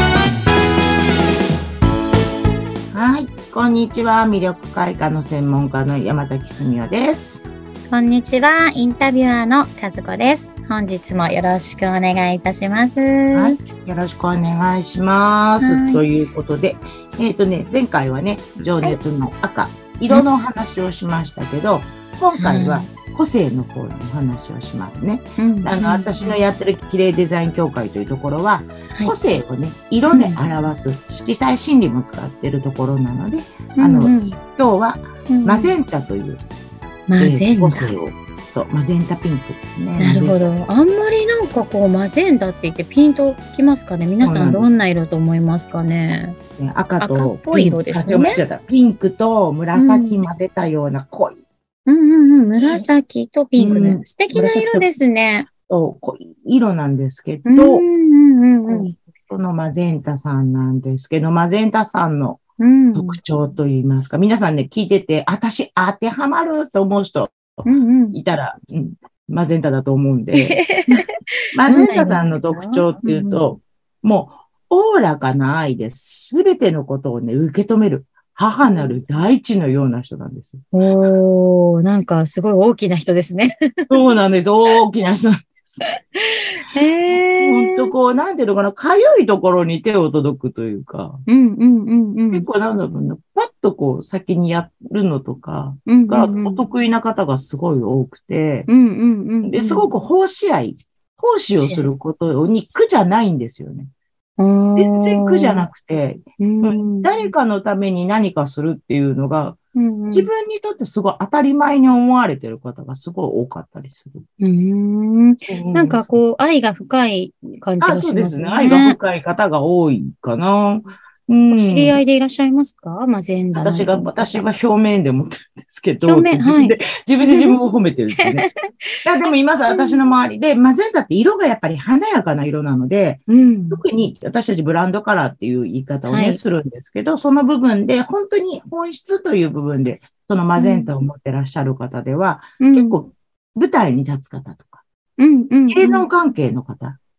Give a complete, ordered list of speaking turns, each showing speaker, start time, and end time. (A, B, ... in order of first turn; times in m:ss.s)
0:02.9-0:07.4 A
0:07.9-0:13.6 B
0:13.3-0:36.4 A
0:15.6-0:16.0 B
0:22.4-0:22.9 B
0:25.4-0:26.4 B
0:30.1-0:30.4 B
0:33.8-0:34.4 B
0:35.3-0:35.8 B
0:37.1-0:38.0 B
0:37.2-0:40.4 A
0:40.0-0:46.4 B
0:44.2-0:44.7 A
0:46.6-0:51.4 A
0:47.0-0:48.4 B
0:49.7-0:50.2 B
0:51.9-0:55.5 B
0:52.6-0:52.9 A
0:53.6-0:54.9 A
0:55.5-0:57.8 A
0:57.5-0:58.9 B
0:58.7-1:02.4 A
1:02.6-1:03.2 B
1:02.9-1:07.6 A
1:07.6-1:08.2 B
1:08.1-1:11.0 A
1:10.3-1:13.5 B
1:11.5-1:20.6 A
1:18.6-1:19.0 B
1:20.7-1:23.6 B
1:23.9-1:25.7 A
1:26.2-1:27.9 B
1:27.4-1:31.2 A
1:31.3-1:32.5 B
1:32.3-1:38.7 A
1:35.9-1:36.6 B
1:38.7-1:39.9 B
1:39.4-1:43.9 A
1:41.5-1:41.9 B
1:44.4-1:45.7 B
1:44.8-1:49.6 A
1:46.4-1:47.3 B
1:49.8-1:50.3 B
1:50.1-1:54.2 A
1:54.4-1:59.0 B
1:55.5-1:56.2 A
1:57.8-2:02.0 A
2:01.5-2:04.4 B
2:03.6-2:08.5 A
2:06.0-2:07.6 B
2:08.2-2:08.6 B
2:09.0-2:24.8 A
2:09.7-2:10.1 B
2:13.3-2:13.8 B
2:16.1-2:16.4 B
2:20.6-2:20.9 B
2:22.6-2:23.0 B
2:25.2-2:26.1 B
2:25.7-2:27.0 A